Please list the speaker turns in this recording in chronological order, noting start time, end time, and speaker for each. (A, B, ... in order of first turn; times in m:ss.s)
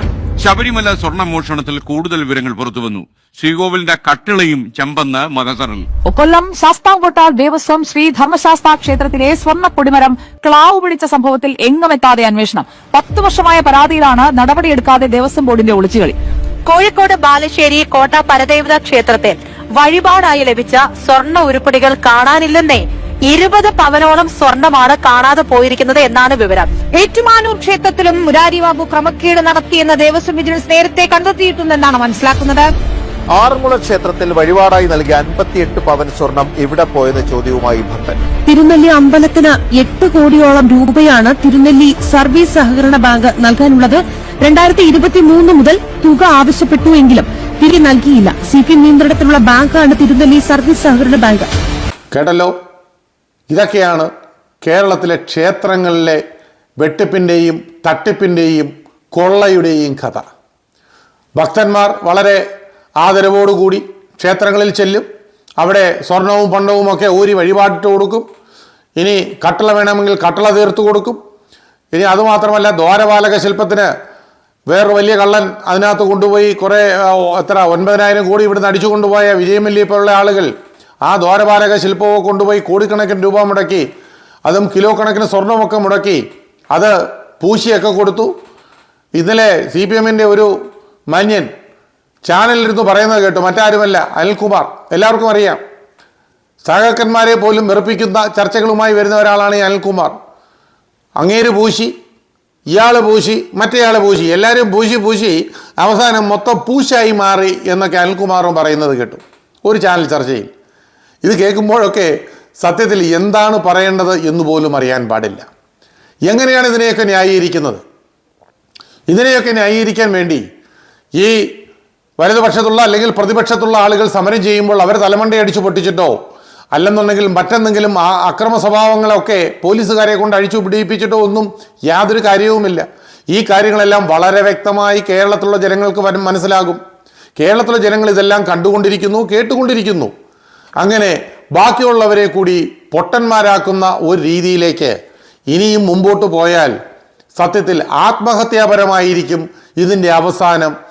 0:00.4-0:05.9 A
0:06.1-0:16.1 B
0:16.6-0:26.7 C
0:26.9-0:32.7 D
0:34.7-0:38.1 E
0:38.5-0:51.5 F
0:52.1-0:52.5 G
0:53.5-0:54.1 G
0:54.6-0:56.2 G
0:56.8-1:00.2 G
1:01.4-1:02.4 G
1:03.0-1:05.0 G
1:05.6-1:08.2 G
1:09.0-1:11.2 G
1:11.9-1:13.9 G
1:14.7-1:20.5 G
1:21.0-1:23.8 G
1:24.4-1:26.2 G
1:26.7-1:28.3 G
1:29.2-1:30.5 G
1:31.1-1:31.5 G
1:32.2-1:35.6 G
1:36.6-1:40.1 G
1:41.2-1:41.9 G
1:42.7-1:50.5 G
1:51.2-1:55.5 G
1:56.2-1:57.8 G
1:59.1-2:00.4 G
2:01.2-2:01.5 G
2:02.2-2:06.1 G
2:06.7-2:16.8 G
2:17.4-2:20.1 G
2:20.8-2:24.9 G
2:25.5-2:26.7 G
2:27.4-2:30.7 G